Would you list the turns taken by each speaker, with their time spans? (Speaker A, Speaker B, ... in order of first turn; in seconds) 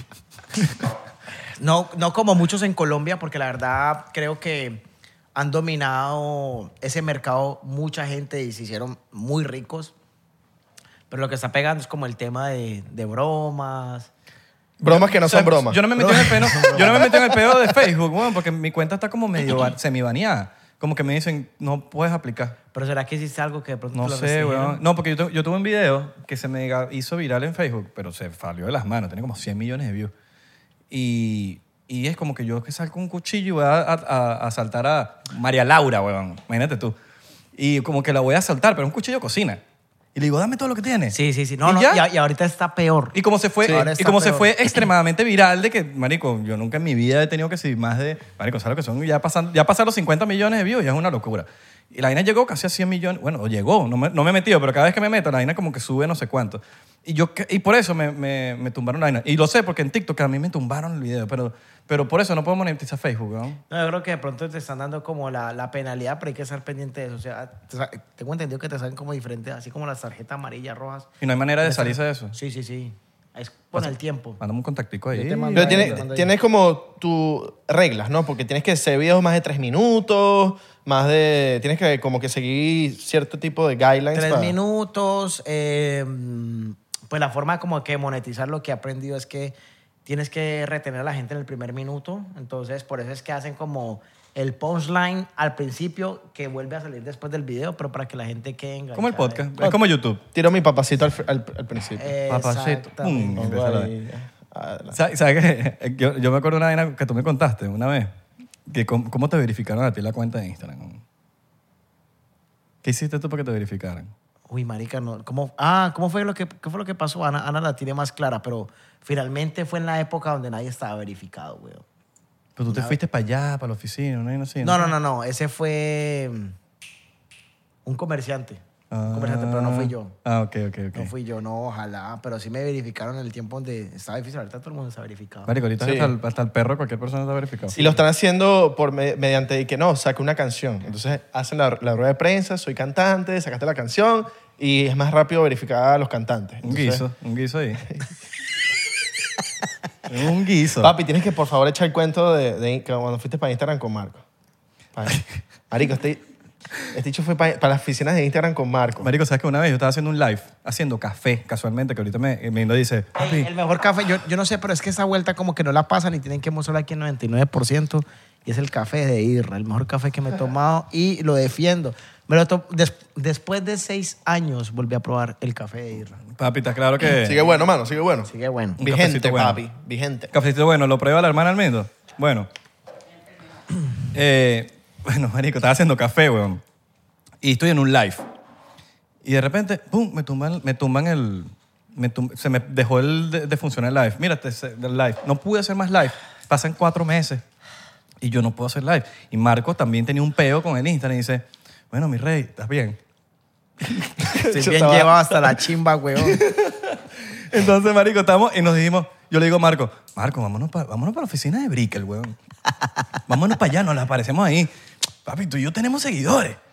Speaker A: 1.6-4.8, 5.3-9.9, 11.1-14.1, 15.9-17.2, 22.7-24.8, 41.1-44.5, 63.7-71.1, 71.6-74.4, 75.1-76.3, 84.1-99.5, 102.0-103.4, 114.5-121.8, 122.7-123.0, 124.6-126.5, 127.8-130.2, 130.9-135.5, 137.7-138.0, 163.2-176.2, 178.3-178.8, 204.5-206.4
Speaker B: 14.8-15.8, 75.5-84.5, 100.3-102.1, 103.3-105.0, 135.8-136.1, 137.7-147.0, 150.8-154.2, 154.9-156.2, 156.9-159.1, 177.2-180.3, 204.4-205.3
Speaker C: 14.8-22.6, 23.9-30.1, 30.9-36.9, 37.5-39.6, 40.1-42.0, 43.1-63.6, 71.2-72.3, 73.7-76.0, 99.0-100.2, 102.3-103.9, 104.9-108.1, 108.7-111.0, 112.8-114.1, 122.6-124.9, 128.9-131.1, 135.5-137.8, 146.6-147.8, 150.1-150.9, 159.0-163.5, 176.3-177.4, 178.8-179.6, 180.3-182.5, 184.1-186.6, 187.4-188.2, 189.2-197.4, 198.2-203.0, 203.8-204.3, 206.2-212.3, 213.3-214.7, 215.2-216.6